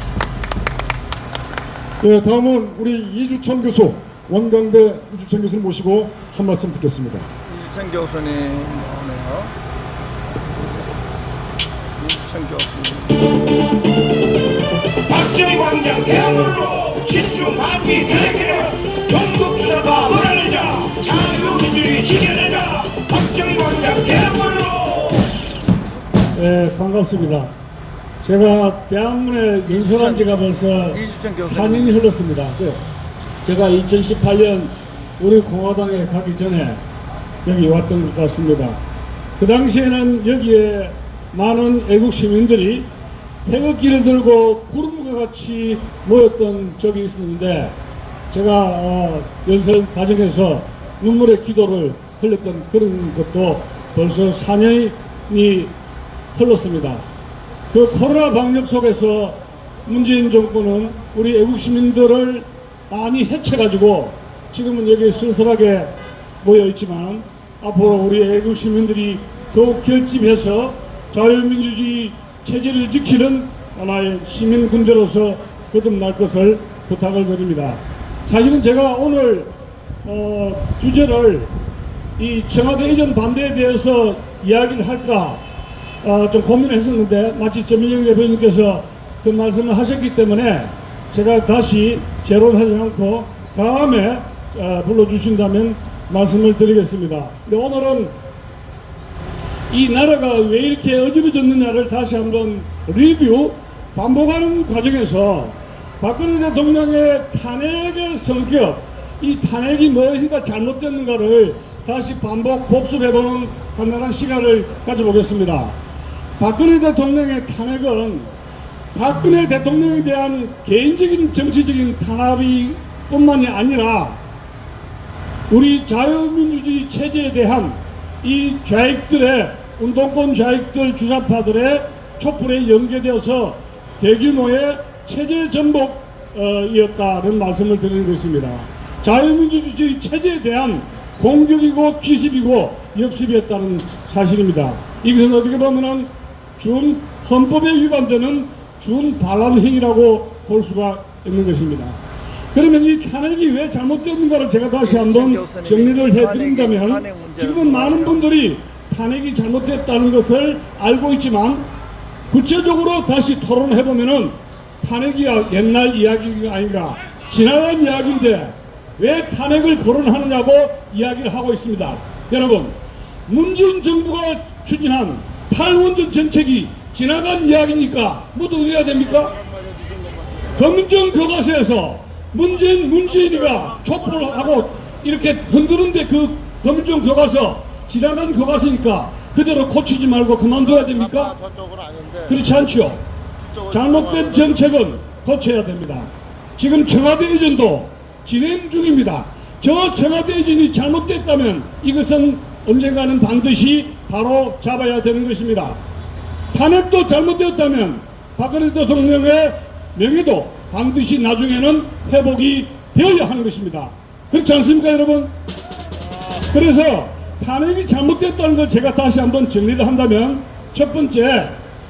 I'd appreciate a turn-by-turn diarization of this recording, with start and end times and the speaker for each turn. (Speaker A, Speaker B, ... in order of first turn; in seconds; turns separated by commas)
Speaker A: 2.0-7.3, Speaker B: 7.5-9.5, Speaker B: 12.0-13.2, Speaker C: 15.1-25.3, Speaker D: 26.4-27.5, Speaker D: 28.2-32.8, Speaker B: 29.7-30.3, Speaker B: 30.9-32.0, Speaker D: 33.4-36.8, Speaker D: 37.5-38.8, Speaker D: 39.4-42.9, Speaker D: 43.5-47.7, Speaker D: 48.3-55.7, Speaker D: 56.3-57.0, Speaker D: 57.7-79.5, Speaker D: 80.0-81.5, Speaker D: 82.2-85.4, Speaker D: 86.0-98.1, Speaker D: 99.7-115.8, Speaker D: 116.4-118.3, Speaker D: 118.9-124.2, Speaker D: 125.5-152.0, Speaker D: 152.5-161.7, Speaker B: 154.8-158.2, Speaker D: 162.3-172.8, Speaker D: 173.3-179.4, Speaker D: 180.6-191.4, Speaker C: 191.5-192.1, Speaker D: 192.2-193.0, Speaker D: 193.7-205.8, Speaker D: 206.5-215.3, Speaker D: 216.5-221.6